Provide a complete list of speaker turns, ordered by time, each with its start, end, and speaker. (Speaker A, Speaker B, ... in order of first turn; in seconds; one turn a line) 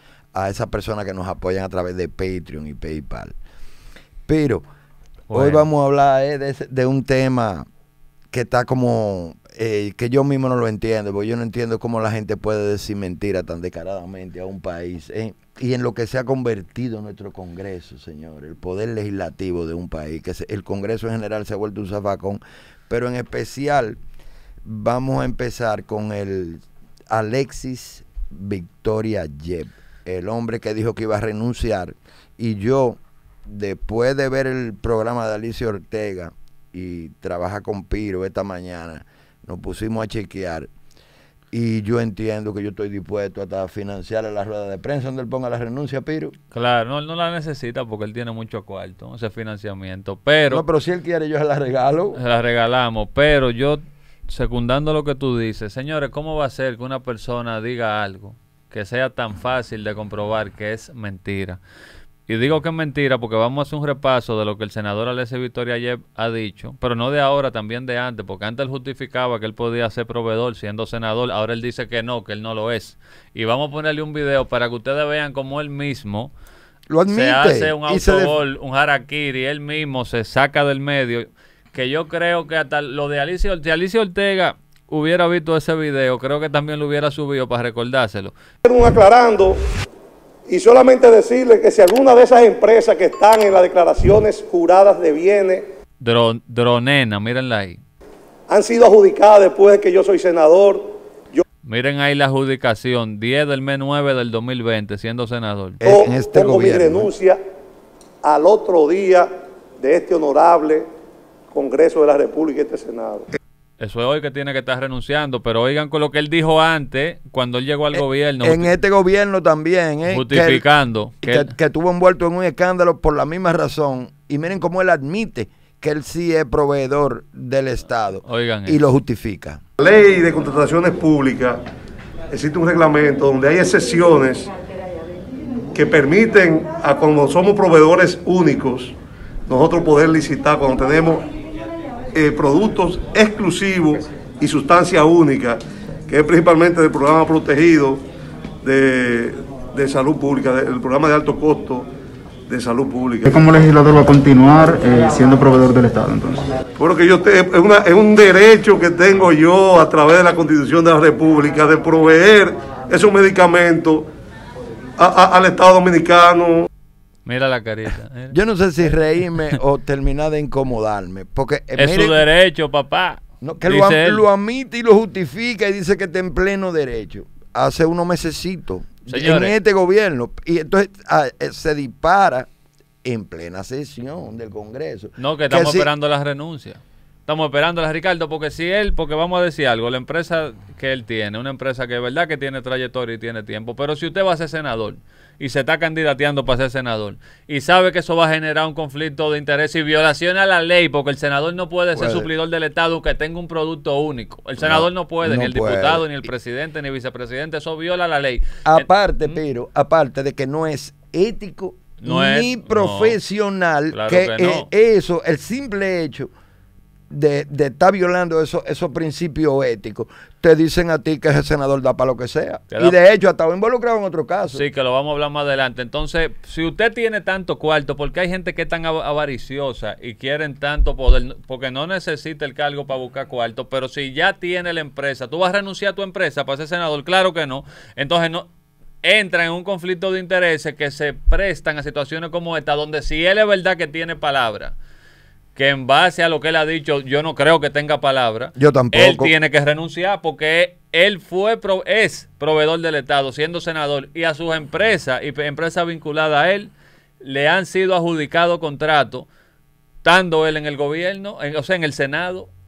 Speaker A: 0.3-3.3
Speaker A: 4.3-4.6
Speaker B: 5.3-5.7
Speaker A: 5.3-7.7
Speaker A: 8.3-24.0
Speaker A: 24.6-40.7
Speaker A: 41.5-46.3
Speaker B: 46.5-50.6
Speaker A: 50.5-52.2
Speaker B: 52.1-61.6
Speaker B: 62.3-76.3
Speaker A: 76.9-78.4
Speaker B: 77.1-88.3
Speaker C: 88.7-89.6
Speaker C: 90.5-95.6
Speaker B: 96.0-97.8
Speaker C: 98.5-101.4
Speaker B: 101.7-105.8
Speaker A: 105.8-107.1
Speaker C: 105.8-107.4
Speaker C: 108.2-109.3
Speaker C: 109.8-110.8
Speaker C: 111.5-113.3
Speaker B: 113.8-118.7
Speaker A: 117.9-120.7
Speaker B: 120.1-121.5
Speaker A: 121.2-129.6
Speaker B: 128.2-128.9
Speaker C: 129.8-131.6
Speaker C: 132.3-134.5
Speaker C: 135.7-138.9
Speaker C: 139.5-141.2
Speaker C: 142.2-148.0
Speaker C: 148.6-151.9
Speaker C: 152.5-153.4
Speaker D: 153.3-156.5
Speaker C: 156.8-164.1
Speaker C: 165.0-166.7
Speaker B: 167.2-168.3
Speaker A: 168.3-172.2
Speaker B: 171.8-174.2
Speaker A: 173.4-182.5
Speaker B: 179.1-179.6
Speaker A: 183.0-185.9
Speaker B: 185.2-209.4
Speaker A: 201.9-202.3
Speaker A: 204.6-206.1
Speaker A: 208.7-216.3
Speaker B: 212.0-213.2
Speaker B: 213.9-214.7
Speaker A: 217.1-224.7
Speaker B: 222.7-223.0
Speaker B: 224.5-238.5
Speaker B: 239.0-244.8
Speaker B: 245.6-259.3
Speaker A: 248.6-249.3
Speaker B: 260.0-262.5